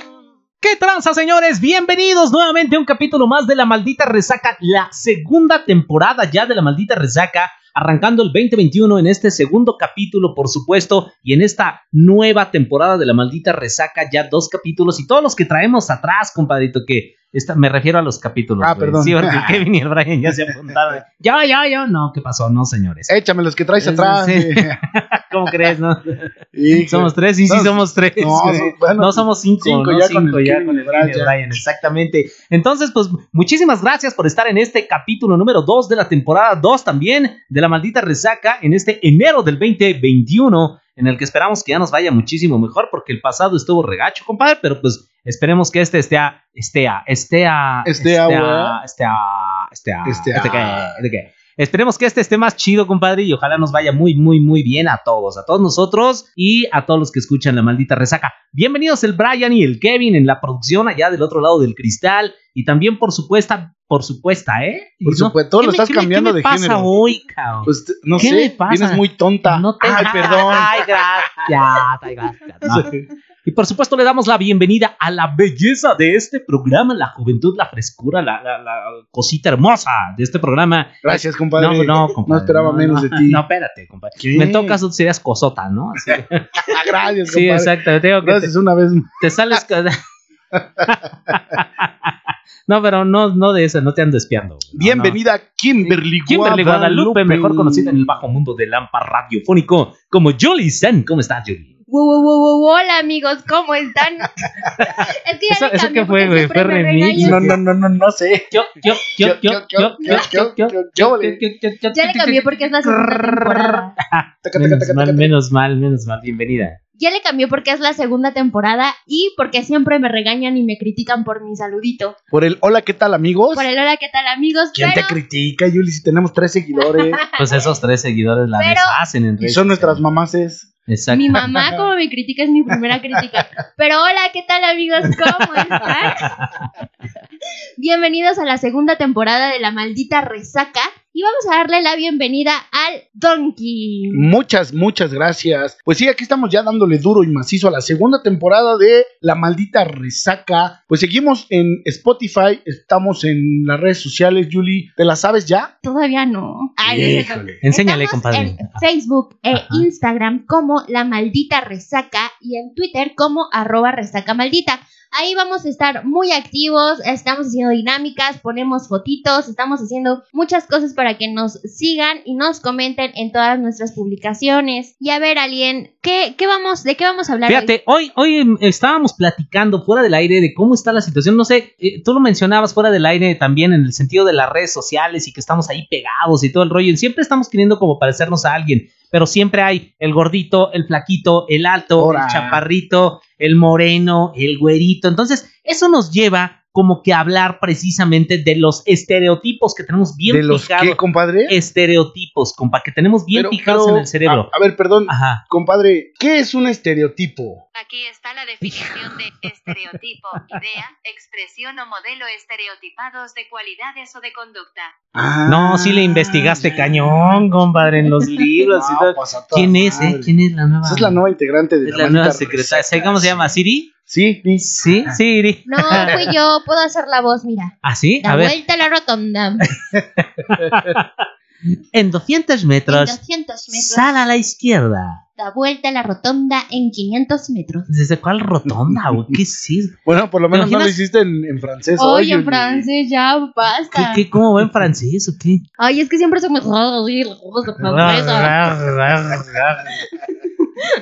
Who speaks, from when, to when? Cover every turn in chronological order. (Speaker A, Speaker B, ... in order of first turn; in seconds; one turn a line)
Speaker A: 0.6-23.1
Speaker B: 18.6-19.6
Speaker B: 23.1-24.8
Speaker A: 23.8-88.5
Speaker B: 25.4-25.7
Speaker B: 26.5-31.6
Speaker B: 47.8-48.8
Speaker B: 50.0-51.0
Speaker B: 65.0-66.9
Speaker B: 67.6-71.5
Speaker B: 72.7-73.0
Speaker B: 81.0-83.4
Speaker B: 84.2-84.8
Speaker B: 86.0-89.6
Speaker A: 89.2-89.9
Speaker B: 90.5-91.0
Speaker A: 90.8-92.1
Speaker A: 92.7-95.2
Speaker B: 94.7-98.0
Speaker A: 95.9-101.7
Speaker C: 101.9-107.5
Speaker A: 104.8-107.6
Speaker B: 107.2-108.6
Speaker A: 108.5-116.8
Speaker B: 109.2-111.4
Speaker C: 111.9-113.9
Speaker B: 114.4-115.3
Speaker C: 117.0-122.1
Speaker B: 122.3-123.7
Speaker C: 123.5-125.2
Speaker B: 124.7-127.2
Speaker C: 126.8-127.7
Speaker A: 127.4-130.0
Speaker C: 128.6-129.0
Speaker B: 129.4-130.7
Speaker A: 130.9-131.7
Speaker C: 131.1-136.3
Speaker B: 131.4-131.8
Speaker C: 137.8-144.2
Speaker B: 144.1-155.7
Speaker C: 155.8-177.7
Speaker B: 156.8-157.6
Speaker A: 157.6-158.8
Speaker A: 159.5-159.8
Speaker A: 177.5-204.5
Speaker B: 192.0-192.6
Speaker B: 200.3-201.5
Speaker B: 203.3-207.6
Speaker A: 205.1-205.4
Speaker D: 207.7-214.9
Speaker A: 208.7-209.0
Speaker B: 215.1-217.4
Speaker A: 215.5-221.2
Speaker B: 218.6-223.4
Speaker A: 221.8-223.9
Speaker B: 224.1-225.1
Speaker A: 224.6-226.2
Speaker C: 225.7-229.7
Speaker B: 225.9-226.2
Speaker A: 227.8-228.5
Speaker A: 229.7-231.1
Speaker B: 230.5-230.9
Speaker A: 231.9-233.2
Speaker C: 232.9-234.2
Speaker A: 233.7-235.2
Speaker C: 235.4-237.9
Speaker A: 237.9-239.9
Speaker B: 238.7-239.3
Speaker B: 240.0-242.9
Speaker A: 240.5-240.9
Speaker C: 242.0-244.2
Speaker A: 243.9-245.6
Speaker C: 245.8-248.7
Speaker A: 247.8-249.9
Speaker C: 250.3-250.9